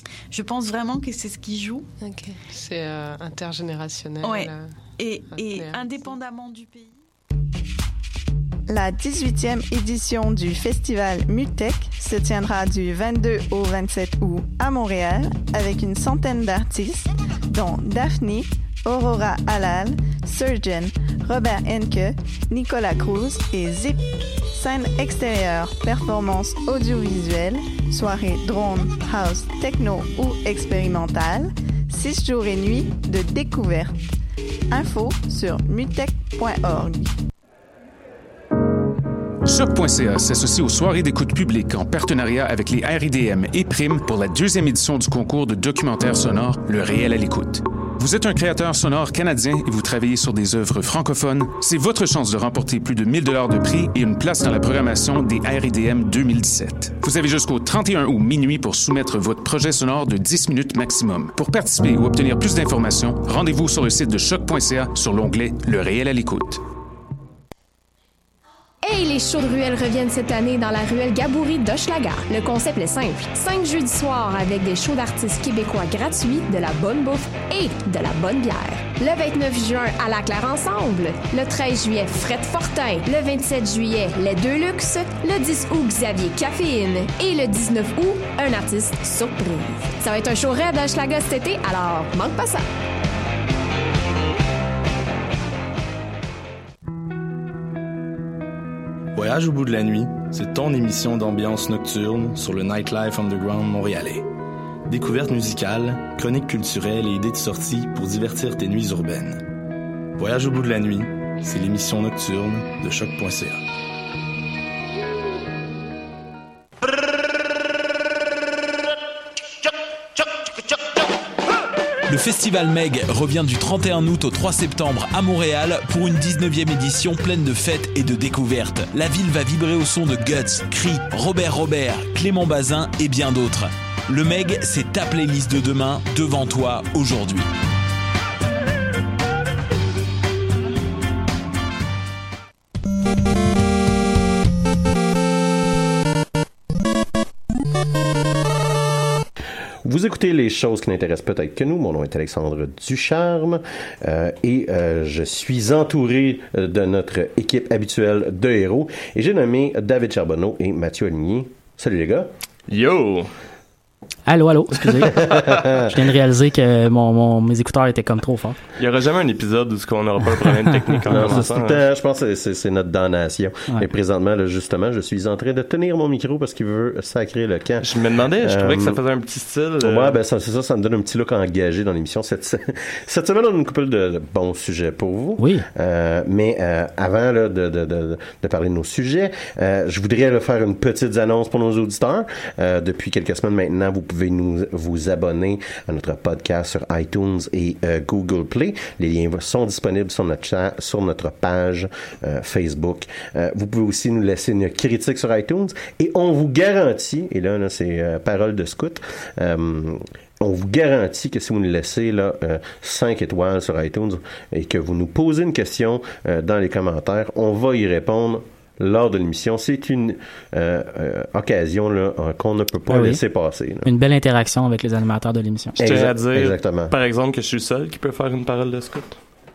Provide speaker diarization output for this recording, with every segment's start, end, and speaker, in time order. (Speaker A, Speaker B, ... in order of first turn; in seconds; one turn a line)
Speaker A: 0.3-1.9
Speaker B: 2.0-4.7
Speaker A: 4.2-7.0
Speaker B: 5.3-6.1
Speaker C: 8.7-33.9
Speaker C: 34.7-37.1
Speaker D: 39.4-66.6
Speaker E: 68.8-92.7
Speaker F: 99.1-104.3
Speaker F: 104.9-109.4
Speaker F: 110.2-113.6
Speaker G: 122.1-137.5
Speaker H: 149.8-162.3
Speaker I: 162.7-163.3
Speaker J: 164.3-168.6
Speaker H: 165.2-165.8
Speaker I: 168.8-171.8
Speaker H: 171.1-179.0
Speaker I: 177.8-180.2
Speaker H: 179.8-223.9
Speaker J: 185.4-185.6
Speaker J: 222.9-223.2
Speaker J: 223.8-225.8
Speaker H: 225.8-226.9
Speaker I: 225.8-229.2